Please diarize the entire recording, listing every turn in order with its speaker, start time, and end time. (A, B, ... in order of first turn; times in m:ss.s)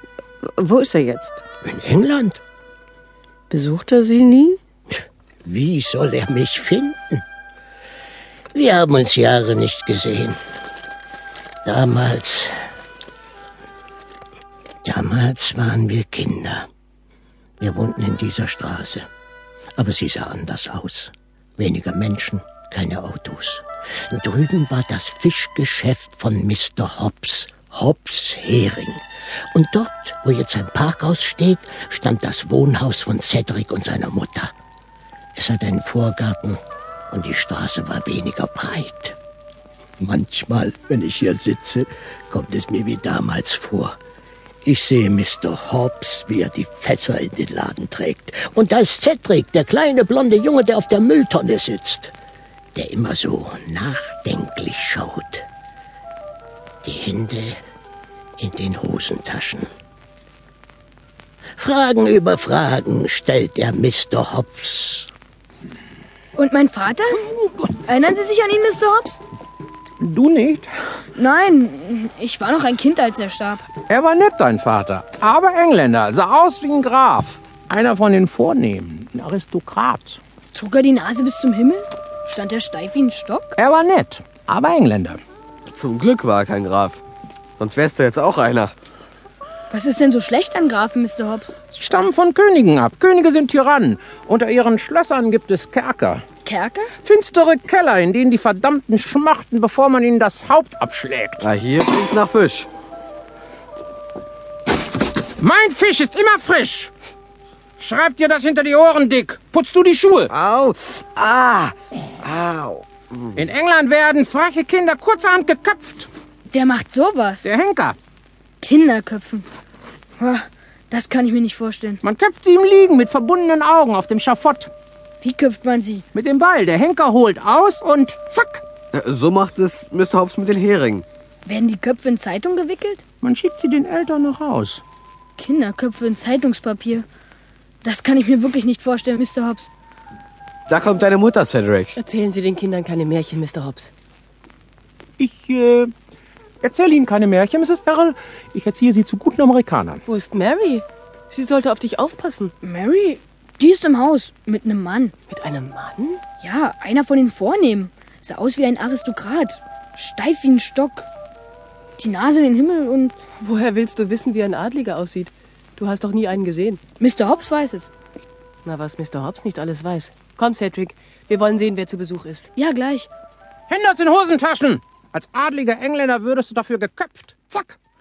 0:00.4-0:01.4 A
0:01.6-0:02.4 B
0:03.5-0:04.6 A
0:05.4-0:07.2 B
0:08.5-0:10.4 B
0:11.6-0:12.5 B
0:14.8-0:16.7 B
0:17.6-0:19.0 B
0:19.8-0:29.0 B
0:29.5-0:34.5 B
0:35.3-0:36.6 B
0:37.1-0:39.2 B
0:40.0-0:43.9 B
0:44.6-0:52.1 B
0:52.7-0:55.4 B
0:56.8-0:57.6 B
0:58.4-0:59.7 B
1:01.6-1:05.1 B
1:06.4-1:07.2 C
1:07.8-1:09.2 C
1:10.0-1:10.7 D
1:11.1-1:13.6 C
1:13.8-1:20.2 D
1:20.5-1:23.6 C
1:23.6-1:25.2 D
1:25.7-1:27.0 E
1:27.6-1:28.7 E
1:29.7-1:31.5 C
1:31.7-1:36.2 D
1:36.4-1:36.9 C
1:37.0-1:41.4 D
1:41.4-1:42.7 E
1:45.4-1:46.9 D
1:47.8-1:50.3 D
1:50.3-1:53.2 E
1:53.3-1:56.1 D
1:56.5-1:57.5 C
1:57.4-1:58.0 D
1:58.6-1:59.4 C
2:00.2-2:02.0 C
2:02.0-2:04.7 D
2:05.2-2:06.0 C
2:06.1-2:08.6 D
2:08.9-2:11.0 E
2:11.4-2:13.0 C
2:13.2-2:14.8 D
2:15.4-2:17.0 C
2:17.8-2:19.7 C
2:20.7-2:21.9 E
2:22.0-2:23.9 F
2:25.2-2:25.9 D
2:26.6-2:30.0 D
2:30.1-2:32.5 F
2:32.6-2:35.1 C
2:35.3-2:36.2 F
2:36.4-2:41.1 C
2:42.0-2:43.2 C
2:43.4-2:46.8 F
2:47.0-2:47.9 C
2:48.6-2:52.4 F
2:52.5-2:53.1 C
2:53.7-2:57.8 D